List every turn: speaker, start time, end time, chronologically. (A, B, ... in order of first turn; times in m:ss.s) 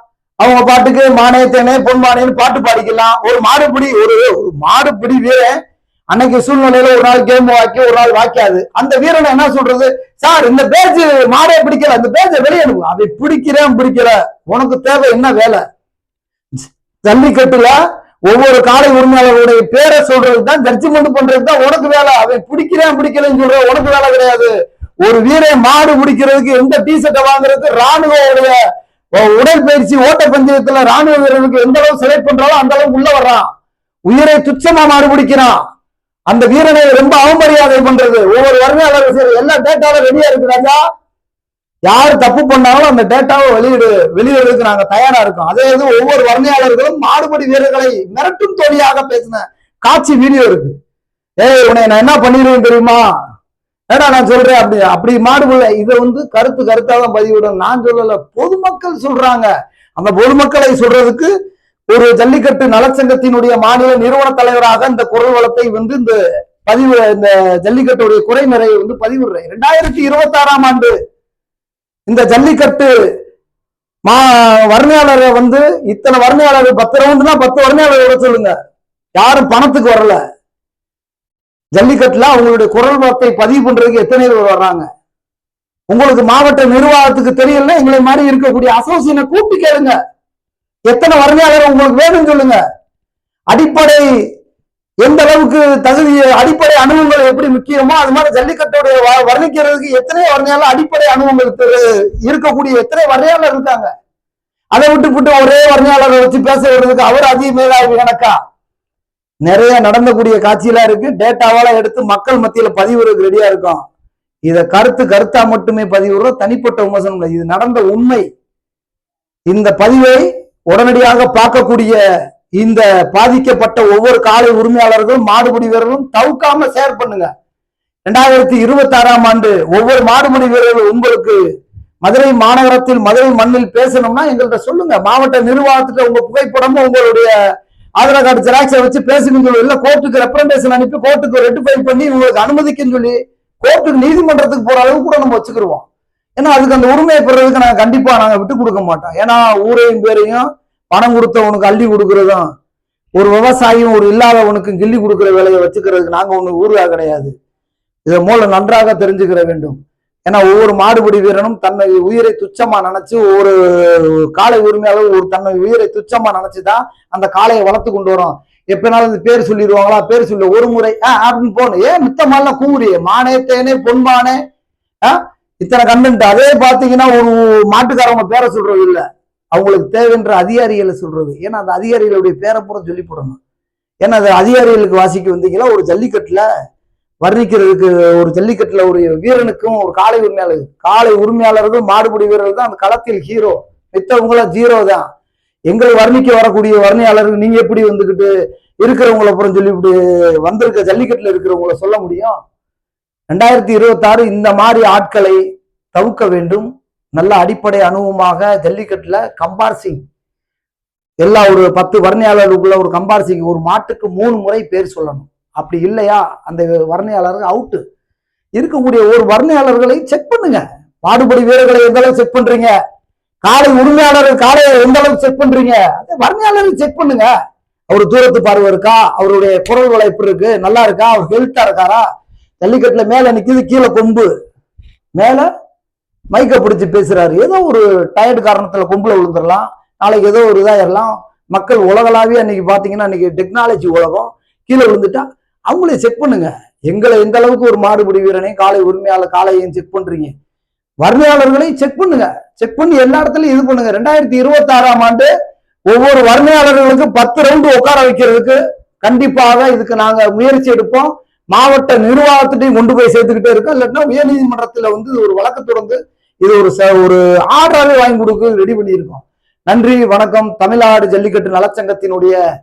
0:00.4-0:05.6 A
0:06.1-0:15.6 A
0:16.6-0:17.8 A
0:18.3-0:24.5 A
0:25.0-0:28.6 A
0:29.2-0:33.5 A
0:34.1-0:35.6 A
0:36.3-0:40.8 A
0:41.9-0:50.7 A
0:51.4-0:53.0 A
0:53.9-1:01.3 A
1:01.9-1:10.9 A
1:12.1-1:12.9 A
1:14.1-1:18.5 A
1:19.2-1:20.2 A
1:21.8-1:24.8 A
1:25.9-1:29.9 A
1:30.9-1:32.6 A
1:33.5-1:34.0 A
1:35.0-1:43.9 A
1:44.7-1:48.3 A
1:49.4-1:53.8 A
1:54.5-1:58.2 A
1:59.5-2:02.0 A
2:02.6-2:07.3 A
2:08.1-2:11.4 A
2:12.0-2:17.3 A
2:18.0-2:25.8 A
2:26.4-2:32.4 A
2:33.2-2:37.3 A
2:38.0-2:54.4 A
2:55.1-2:59.0 A
2:59.5-3:03.4 A
3:04.0-3:06.4 A
3:07.2-3:15.0 A
3:15.7-3:18.3 A
3:18.8-3:22.4 A
3:23.3-3:25.4 A
3:25.9-3:30.0 A
3:31.2-3:37.8 A
3:38.6-3:42.7 A
3:43.4-3:47.3 A
3:47.9-3:52.0 A
3:52.6-3:54.3 A
3:55.2-3:55.5 A
3:56.3-4:10.3 A
4:11.0-4:15.3 A
4:15.9-4:32.4 A